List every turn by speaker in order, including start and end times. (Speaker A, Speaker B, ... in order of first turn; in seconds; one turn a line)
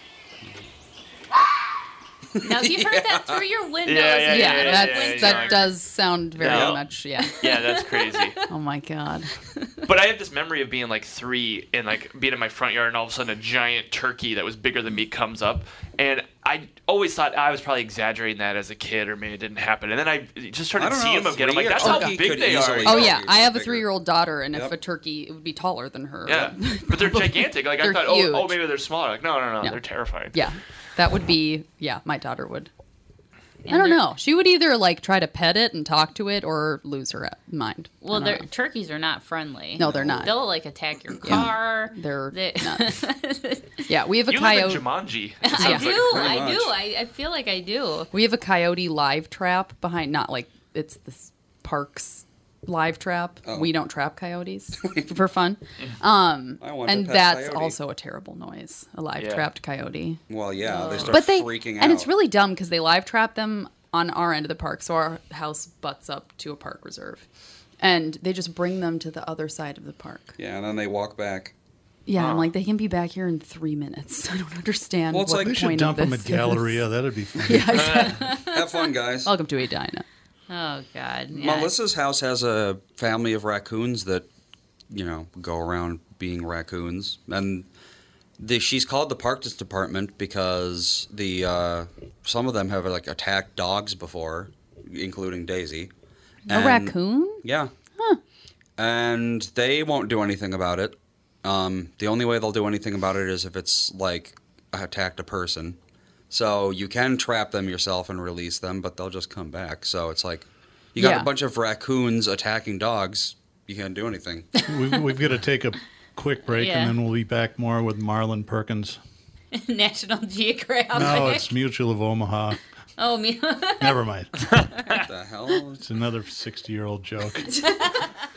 Speaker A: 2.4-3.4
Speaker B: 2.4-5.7
Speaker C: 3.9-5.7
Speaker D: 4.3-7.8
Speaker C: 6.4-6.8
Speaker A: 6.4-6.8
Speaker B: 7.3-8.2
Speaker C: 7.4-8.4
Speaker D: 8.5-9.3
Speaker C: 9.8-23.2
Speaker A: 20.8-23.9
Speaker D: 21.8-22.2
Speaker D: 22.9-28.6
Speaker A: 24.5-24.8
Speaker C: 26.3-30.4
Speaker D: 30.3-32.7
Speaker B: 33.7-34.1
Speaker D: 33.7-38.5
Speaker B: 38.0-43.9
Speaker D: 39.8-40.3
Speaker A: 39.8-40.4
Speaker D: 41.2-42.9
Speaker A: 41.2-41.5
Speaker D: 43.9-44.9
Speaker C: 44.3-46.3
Speaker B: 45.4-48.1
Speaker D: 45.6-45.9
Speaker A: 45.9-46.8
Speaker D: 48.1-67.2
Speaker A: 53.5-53.8
Speaker A: 54.8-55.1
Speaker A: 56.6-57.8
Speaker C: 59.2-59.5
Speaker A: 60.3-62.1
Speaker B: 60.7-61.1
Speaker D: 67.8-70.3
Speaker A: 70.4-71.5
Speaker D: 72.1-76.9
Speaker C: 72.2-72.5
Speaker A: 75.1-75.6
Speaker E: 75.3-77.9
Speaker D: 77.4-80.0
Speaker C: 77.7-78.2
Speaker A: 78.3-79.4
Speaker B: 80.5-81.7
Speaker A: 81.3-84.3
Speaker A: 84.9-87.7
Speaker A: 88.4-95.9
Speaker A: 96.5-97.7
Speaker D: 96.5-97.5
Speaker A: 98.8-105.8
Speaker A: 106.3-114.5
Speaker D: 111.0-111.3
Speaker B: 114.6-115.0
Speaker E: 114.7-119.0
Speaker B: 116.5-117.0
Speaker B: 119.5-121.5
Speaker E: 120.9-122.6
Speaker B: 123.0-124.0
Speaker E: 123.8-124.3
Speaker A: 124.9-125.8
Speaker E: 125.8-127.5
Speaker B: 127.6-128.0